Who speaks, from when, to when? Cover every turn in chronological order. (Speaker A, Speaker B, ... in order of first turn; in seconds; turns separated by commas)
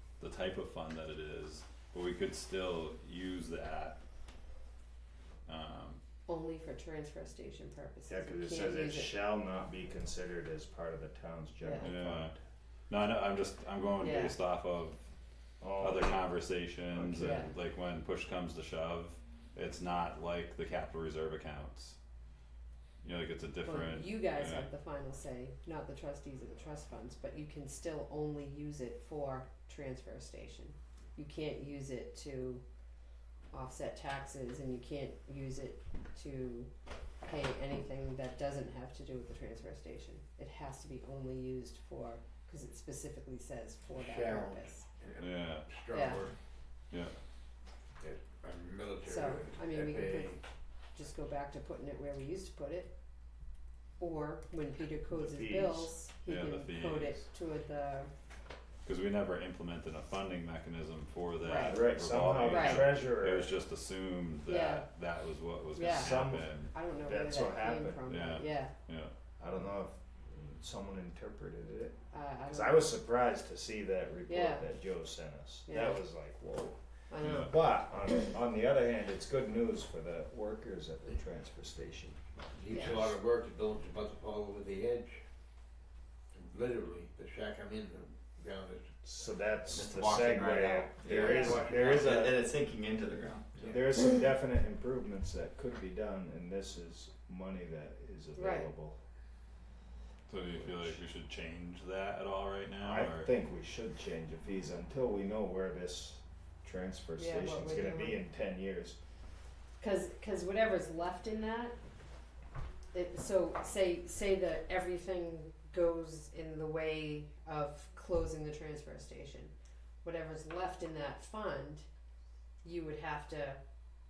Speaker A: 0.2-4.0, Speaker A: 5.5-6.0, Speaker B: 6.3-9.2, Speaker C: 8.1-12.4, Speaker B: 11.6-11.9, Speaker A: 11.8-12.3, Speaker A: 12.9-15.0, Speaker B: 14.0-14.3, Speaker C: 15.6-17.4, Speaker A: 15.8-22.0, Speaker B: 17.2-17.5, Speaker A: 23.0-24.7, Speaker B: 23.6-32.6, Speaker B: 33.5-36.7, Speaker B: 37.2-44.9, Speaker D: 43.9-46.4, Speaker A: 45.2-45.7, Speaker B: 45.9-46.2, Speaker D: 48.0-50.4, Speaker B: 49.0-50.4, Speaker B: 50.9-52.9, Speaker B: 54.0-58.1, Speaker C: 55.1-55.9, Speaker A: 56.2-57.2, Speaker A: 58.9-66.7, Speaker B: 61.4-61.8, Speaker C: 61.6-63.5, Speaker B: 62.5-62.9, Speaker B: 64.5-64.9, Speaker B: 65.7-68.7, Speaker C: 65.9-68.0, Speaker A: 68.0-69.1, Speaker C: 69.4-72.0, Speaker B: 72.1-72.9, Speaker C: 72.5-82.2, Speaker B: 74.3-74.7, Speaker B: 75.7-76.0, Speaker B: 77.1-77.5, Speaker D: 82.5-85.2, Speaker B: 82.7-83.1, Speaker C: 82.8-83.1, Speaker D: 86.3-88.9, Speaker C: 89.0-92.3, Speaker E: 89.7-93.8, Speaker B: 91.1-91.6, Speaker D: 91.2-92.3, Speaker C: 93.6-99.0, Speaker B: 98.3-98.7, Speaker A: 100.3-103.3, Speaker C: 100.6-101.0, Speaker C: 102.8-109.0, Speaker B: 107.2-108.2, Speaker B: 109.8-111.8, Speaker B: 112.9-121.9, Speaker B: 122.6-123.6